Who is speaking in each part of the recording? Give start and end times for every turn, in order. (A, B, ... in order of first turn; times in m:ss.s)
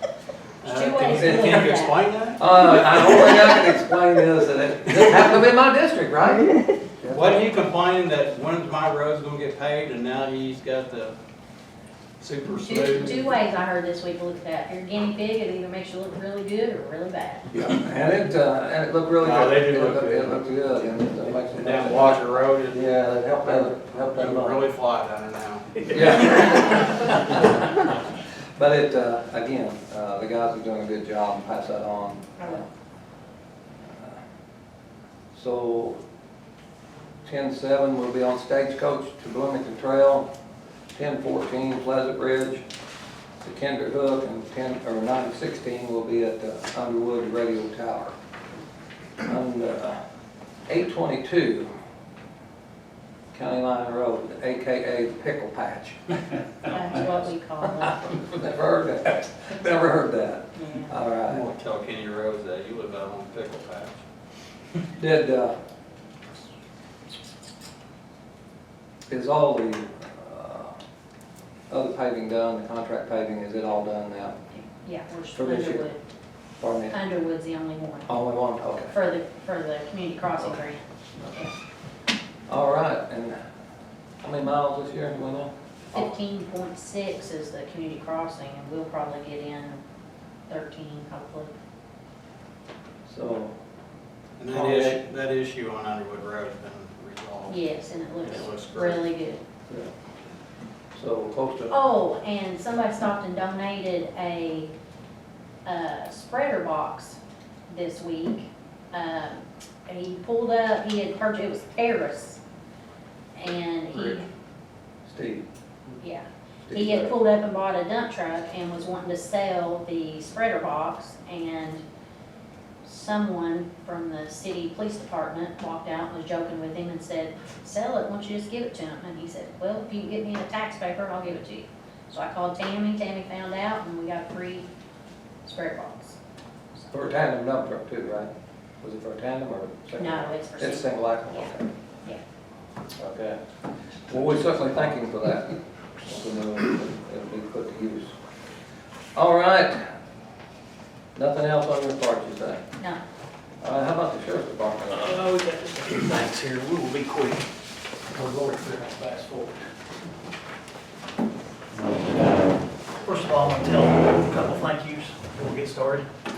0:00.6-0:03.5 A
0:00.7-0:02.0 B
0:01.2-0:01.7 C
0:02.4-0:07.3 C
0:07.1-0:11.2 A
0:12.2-0:13.4 A
0:12.6-0:17.5 B
0:17.5-0:24.6 C
0:19.2-0:20.3 A
0:21.5-0:22.9 A
0:23.4-0:26.2 A
0:25.9-0:28.0 C
0:28.6-0:32.6 C
0:32.4-0:32.6 B
0:33.9-0:34.2 C
0:35.3-0:36.0 C
0:37.2-0:40.3 C
0:41.0-0:42.6 C
0:43.4-0:48.1 C
0:49.2-0:50.0 C
0:50.7-0:51.7 C
0:53.3-0:56.2 C
0:56.7-0:58.1 B
0:57.8-1:01.4 C
1:00.6-1:00.9 B
1:01.3-1:04.0 A
1:05.0-1:05.6 C
1:09.1-1:10.8 C
1:11.7-1:14.4 C
1:14.5-1:16.0 B
1:15.3-1:15.8 C
1:16.6-1:17.0 C
1:16.9-1:18.1 B
1:18.1-1:18.9 C
1:18.9-1:21.5 B
1:22.5-1:23.4 C
1:24.2-1:25.5 C
1:25.9-1:29.8 B
1:30.5-1:31.5 B
1:33.1-1:33.5 C
1:34.4-1:37.6 A
1:34.5-1:35.0 C
1:37.5-1:39.4 B
1:38.2-1:39.0 A
1:40.9-1:41.7 C
1:41.7-1:44.7 B
1:45.6-1:47.2 B
1:47.7-1:52.4 B
1:53.4-1:54.2 B
1:53.9-1:54.2 C
1:55.0-1:55.5 C
1:56.0-2:01.8 B
1:56.7-1:57.1 C
2:02.8-2:14.7 B
2:15.4-2:16.2 B
2:16.9-2:18.3 C
2:18.8-2:21.7 C
2:20.0-2:21.5 B
2:23.0-2:23.4 C
2:24.1-2:28.2 C
2:29.2-2:29.9 C
2:31.2-2:32.6 C
2:33.6-2:35.2 C
2:34.9-2:37.4 D
2:38.1-2:39.6 D
2:43.0-2:46.1 D